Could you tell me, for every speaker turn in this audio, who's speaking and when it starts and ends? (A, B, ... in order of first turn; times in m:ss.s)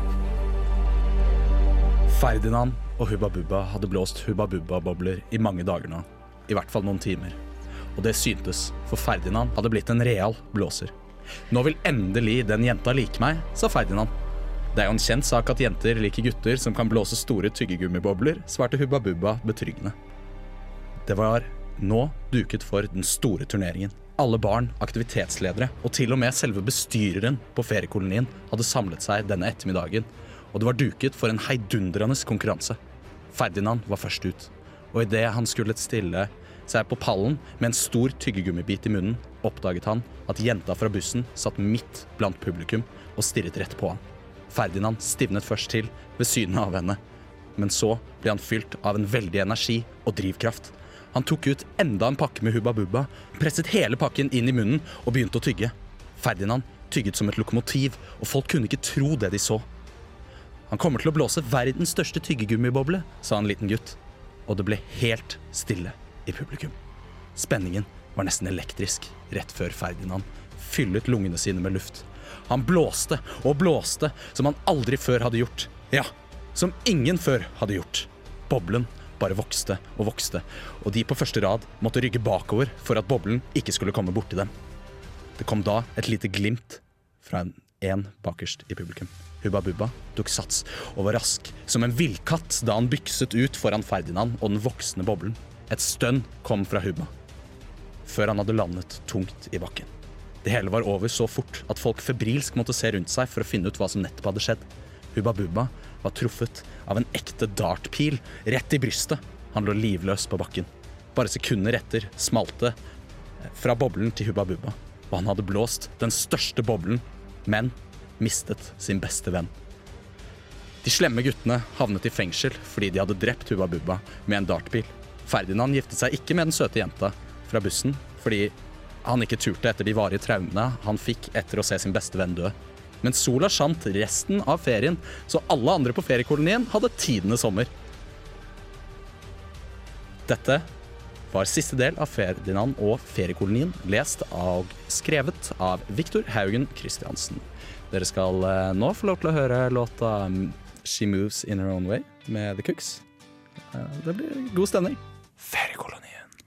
0:02.1-0:07.4 A
0:08.0-0:10.9 A
0:11.5-0:14.1 A
0:14.7-0:20.0 A
0:21.0-0:32.8 A
0:33.3-0:47.0 A
0:47.6-0:59.7 A
1:00.7-1:06.8 A
1:07.3-1:24.5 A
1:25.4-1:37.1 A
1:38.0-1:39.9 A
1:40.4-1:52.8 A
1:53.4-1:59.5 A
2:00.8-2:17.7 A
2:20.2-2:20.7 A
2:21.3-2:33.0 A
2:33.7-2:36.2 A